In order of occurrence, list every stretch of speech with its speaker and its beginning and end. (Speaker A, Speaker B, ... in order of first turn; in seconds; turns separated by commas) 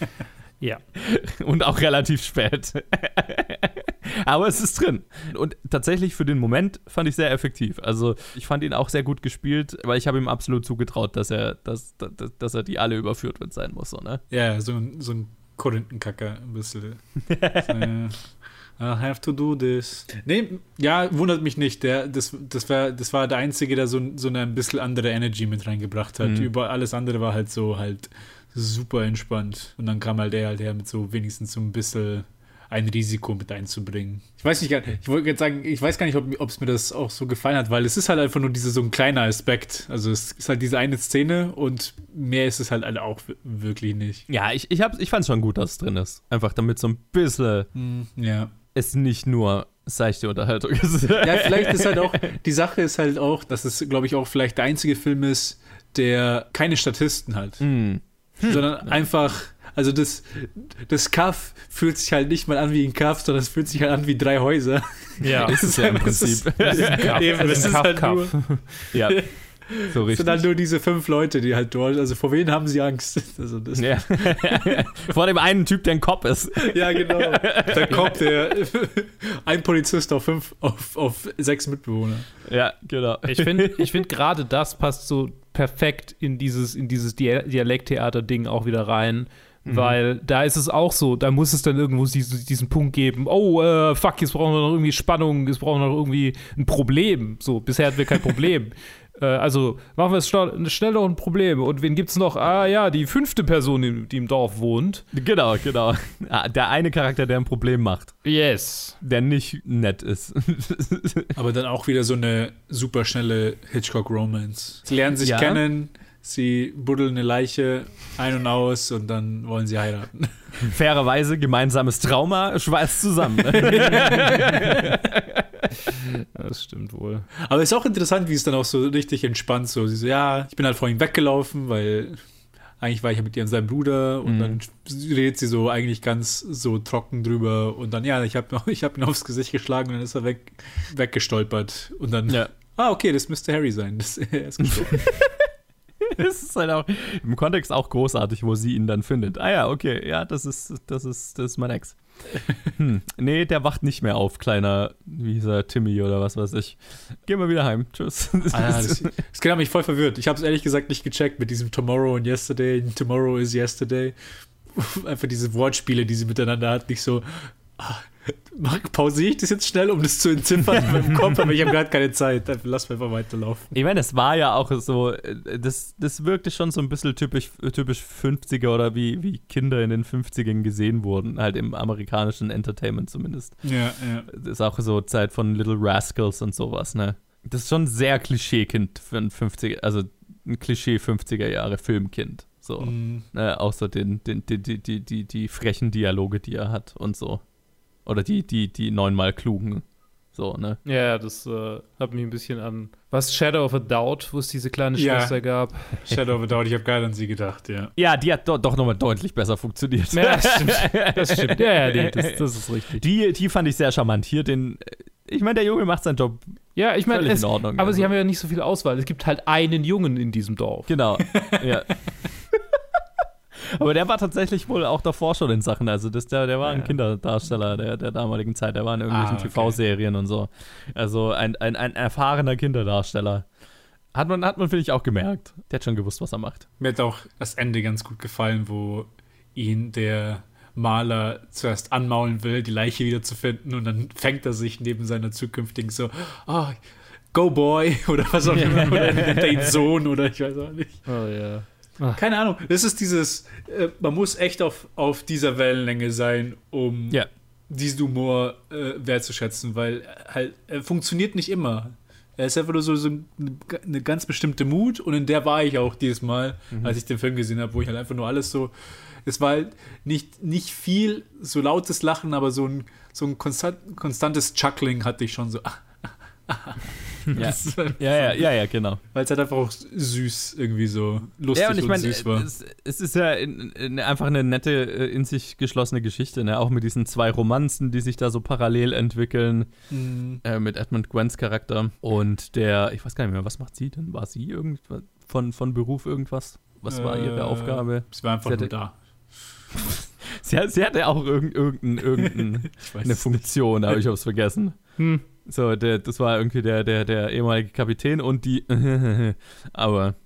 Speaker A: 0.9-14.2, Speaker B: 14.3-17.0, Speaker A: 17.3-17.9, Speaker B: 17.7-44.2, Speaker A: 26.2-26.5, Speaker A: 44.3-47.7, Speaker B: 47.7-48.5, Speaker A: 48.7-52.1, Speaker B: 51.2-57.6, Speaker A: 57.6-59.0, Speaker B: 58.4-74.8, Speaker C: 65.2-65.6, Speaker A: 65.4-67.8, Speaker C: 66.6-68.6, Speaker A: 68.9-70.5, Speaker A: 73.7-78.3, Speaker B: 76.6-82.3, Speaker A: 82.5-84.0, Speaker C: 83.2-105.0, Speaker A: 89.6-90.0, Speaker A: 105.1-108.2, Speaker C: 108.2-109.0, Speaker A: 109.0-111.3, Speaker B: 111.3-120.5, Speaker A: 115.2-115.6, Speaker A: 120.6-125.4, Speaker B: 123.5-124.4, Speaker C: 126.0-127.3, Speaker B: 127.4-132.2, Speaker B: 132.8-145.2, Speaker A: 134.2-134.6, Speaker A: 146.1-152.0, Speaker A: 152.7-159.1, Speaker B: 158.5-164.1, Speaker B: 164.7-173.7, Speaker A: 173.7-183.7, Speaker B: 183.6-184.3, Speaker A: 184.3-197.4, Speaker B: 192.8-193.2, Speaker A: 198.0-200.8, Speaker C: 200.8-206.2, Speaker B: 204.9-207.9, Speaker A: 207.9-218.1, Speaker C: 210.1-213.0, Speaker C: 216.7-220.9, Speaker A: 220.9-222.6, Speaker A: 223.7-233.4, Speaker C: 226.6-227.0, Speaker B: 229.1-229.8, Speaker A: 234.1-236.7, Speaker B: 236.8-246.8, Speaker B: 247.3-251.1, Speaker A: 248.5-249.7, Speaker C: 251.1-252.2, Speaker B: 252.1-278.4, Speaker A: 277.3-279.0, Speaker B: 279.1-282.5, Speaker A: 281.5-289.7, Speaker B: 289.9-290.4, Speaker A: 290.4-298.7, Speaker B: 296.9-299.0, Speaker A: 299.8-310.1, Speaker B: 302.7-303.9, Speaker C: 305.0-305.2